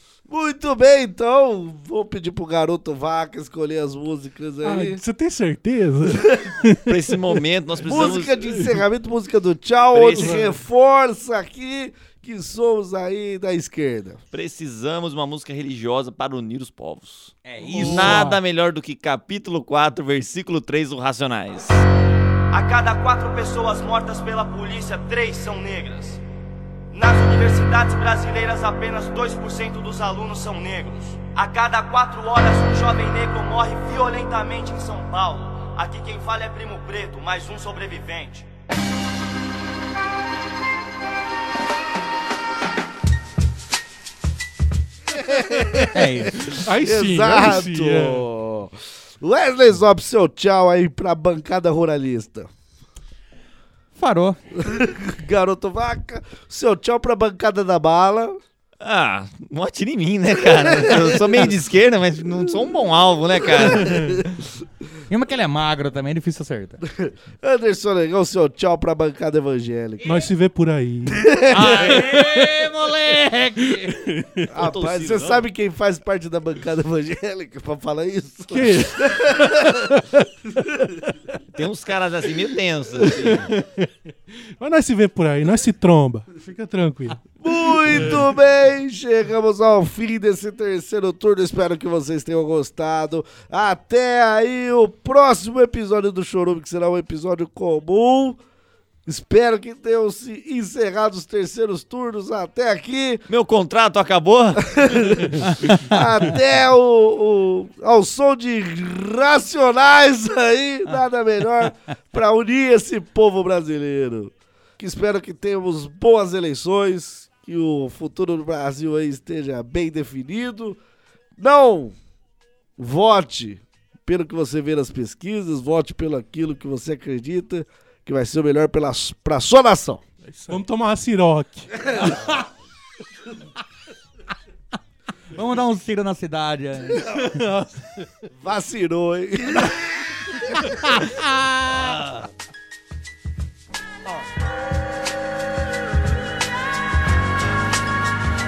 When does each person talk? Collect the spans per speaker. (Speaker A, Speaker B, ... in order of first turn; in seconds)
Speaker A: 0.3-5.0, 7.8-14.2, 45.2-45.7, 46.8-52.5, 54.6-58.4, 60.5-61.2, 63.6-64.0, 66.9-70.1, 71.2-71.8, 74.5-81.1, 87.4-98.4, 99.0-103.2, 104.6-120.8, 121.4-121.9, 122.8-130.0, 131.9-132.2, 138.3-139.8
Speaker B: 4.6-7.3, 8.0-8.8, 10.1-10.6, 17.6-18.4, 46.5-48.3, 70.0-71.3, 74.1-74.4, 78.5-79.1, 84.6-88.2, 130.3-131.9, 137.2-137.7
Speaker C: 6.9-8.4, 9.9-10.4, 14.3-21.9, 58.8-64.0, 71.6-72.2, 74.6-75.5, 81.5-83.5, 103.3-104.9, 141.8-142.1
Speaker D: 17.4-18.3, 45.9-46.4, 53.9-54.4, 65.1-66.8, 71.5-73.9, 132.0-132.3, 135.3-137.2, 140.6-142.0
Speaker E: 22.5-26.2, 26.9-38.5